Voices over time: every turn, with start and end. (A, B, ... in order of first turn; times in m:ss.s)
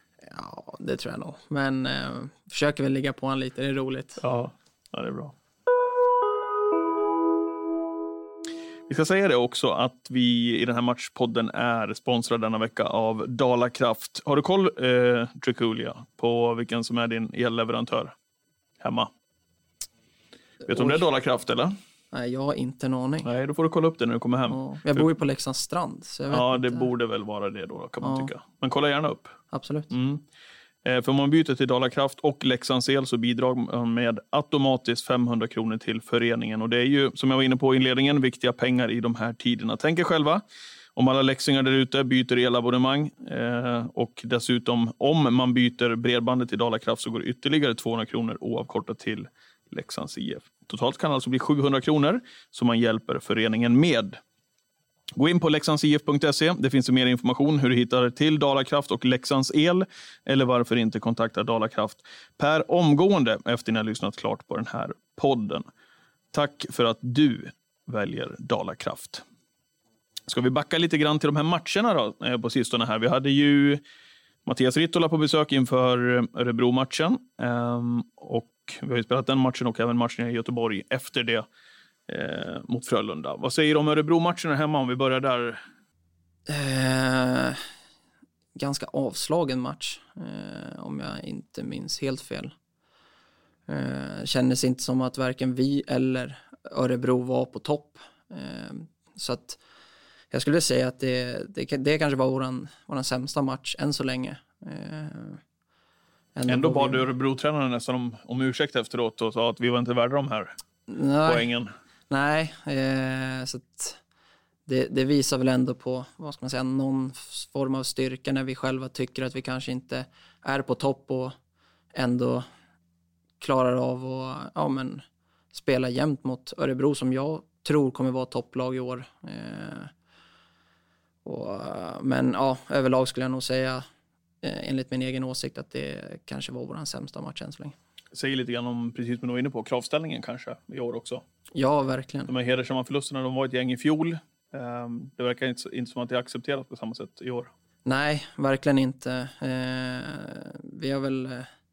0:00.2-0:04.2 A
0:04.2-0:05.3 B
0:08.9-0:18.1 B
0:18.8-0:19.1 B
0:20.6-0:21.0 A
0:20.7-0:21.8 B
0:22.1-0:23.3 A
0:23.2-0:25.1 B
0:24.5-0:26.9 A
0:26.3-0:29.4 B
0:28.0-0:28.3 A
0:29.5-0:29.9 A
0:29.9-0:30.2 B
0:30.8-0:40.4 B
0:41.0-0:54.2 B
0:55.2-1:05.6 B
1:06.3-1:09.2 B
1:10.3-1:13.8 B
1:14.5-1:21.5 B
1:22.1-1:25.6 B
1:26.5-1:27.6 A
1:28.6-1:32.5 A
1:33.7-1:39.6 A
1:40.3-1:45.4 A
1:46.4-1:47.1 A
1:46.5-1:50.6 B
1:50.9-1:51.5 A
1:51.2-1:51.7 B
1:52.1-1:54.0 A
1:54.7-2:01.4 A
2:01.9-2:02.4 A
2:03.4-2:09.9 A
2:11.2-2:13.8 A
2:14.4-2:17.8 A
2:18.1-2:21.2 B
2:21.5-2:22.3 A
2:22.3-2:27.5 B
2:27.8-2:31.5 A